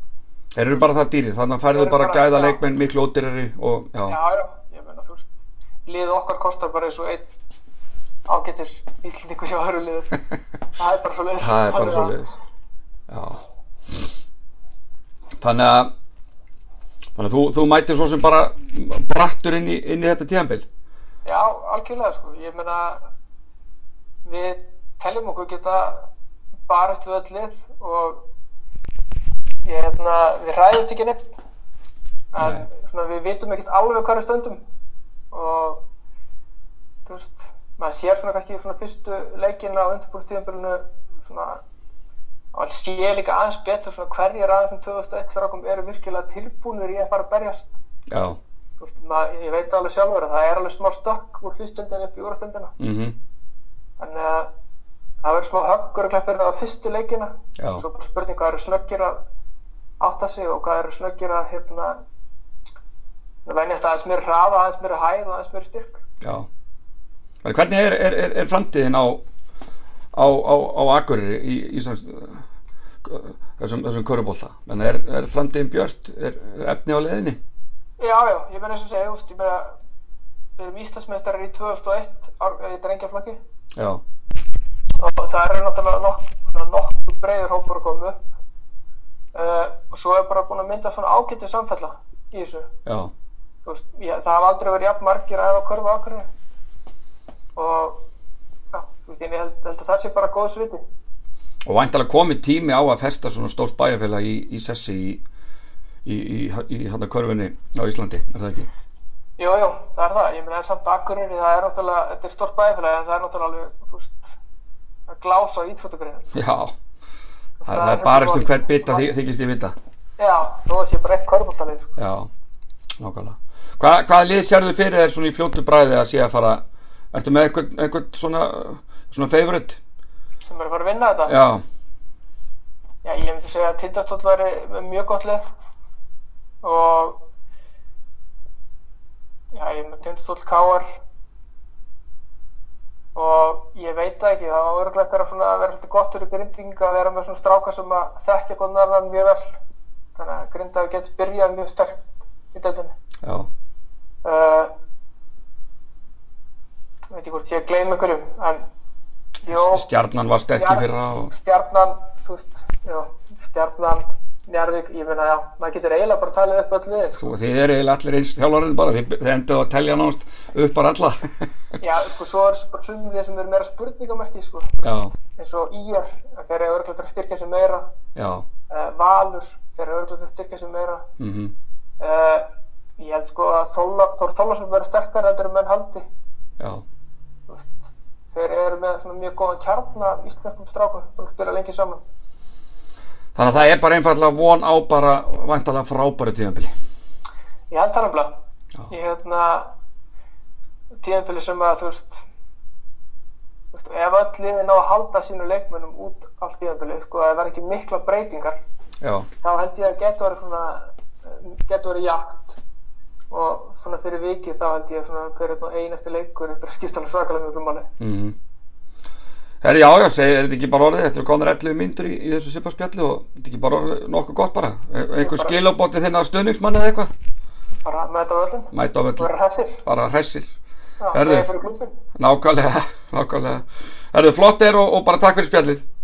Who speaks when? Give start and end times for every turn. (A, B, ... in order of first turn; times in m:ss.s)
0:00.6-0:04.2 A
0:01.7-0:02.6 B
0:04.1-0:05.3 B
0:05.9-0:07.3 B
0:08.3-0:10.2 B
0:10.8-0:12.2 B
0:11.4-0:12.4 A
0:13.1-0:13.4 A
0:15.4-0:15.9 A
0:17.2-0:20.6 A
0:21.2-0:23.0 B
0:24.2-0:26.1 B
0:26.7-0:28.3 B
0:29.6-0:31.4 B
0:32.3-0:34.6 B
0:32.4-0:32.7 A
0:35.3-0:35.8 B
0:37.1-0:41.6 B
0:42.5-0:47.7 B
0:48.1-0:48.4 A
0:48.8-0:52.7 B
0:52.8-0:53.2 A
0:54.0-0:54.5 B
0:55.2-0:59.2 B
0:57.6-0:57.8 A
1:00.0-1:02.0 B
1:03.4-1:06.0 B
1:06.2-1:06.5 A
1:07.4-1:09.2 A
1:10.1-1:12.4 A
1:13.0-1:17.4 A
1:18.0-1:19.8 B
1:20.6-1:23.4 B
1:23.8-1:24.0 A
1:25.0-1:28.2 B
1:29.3-1:32.7 B
1:32.9-1:33.1 A
1:33.6-1:36.3 B
1:37.6-1:38.1 B
1:38.7-1:40.8 B
1:41.7-1:45.2 A
1:46.0-1:48.7 A
1:49.4-1:54.3 B
1:55.1-1:56.3 B
1:56.3-1:56.7 A
1:57.6-1:59.1 B
1:57.7-1:59.8 A
2:00.2-2:01.9 B
2:02.0-2:02.3 A
2:03.0-2:06.6 A
2:07.1-2:09.8 A
2:10.4-2:11.4 B
2:11.3-2:11.6 A
2:13.0-2:15.4 B
2:16.6-2:17.2 B
2:19.5-2:20.9 B
2:23.2-2:29.4 B
2:30.2-2:32.9 B
2:33.2-2:33.5 A
2:34.2-2:34.7 B
2:37.1-2:38.6 B
2:39.5-2:39.9 B
2:39.5-2:41.3 A
2:40.5-2:47.2 B
2:47.1-2:51.3 A
2:51.8-2:57.9 B
2:54.8-2:55.1 A
2:58.2-2:58.4 A
2:58.7-3:01.1 B
3:01.2-3:01.5 A
3:02.0-3:02.5 B
3:03.0-3:06.0 B
3:07.5-3:12.0 B
3:13.4-3:16.7 A
3:17.7-3:18.4 B
3:18.9-3:19.7 B
3:21.0-3:22.2 B
3:23.7-3:28.6 B
3:29.0-3:29.3 A
3:29.4-3:32.6 B
3:33.3-3:37.9 B
3:38.0-3:38.4 A
3:39.6-3:47.1 A
3:45.2-3:45.6 B
3:47.8-3:49.8 B
3:48.7-3:49.3 A
3:49.8-3:50.5 A
3:51.0-3:52.0 B
3:51.1-3:51.5 A
3:52.2-3:55.8 A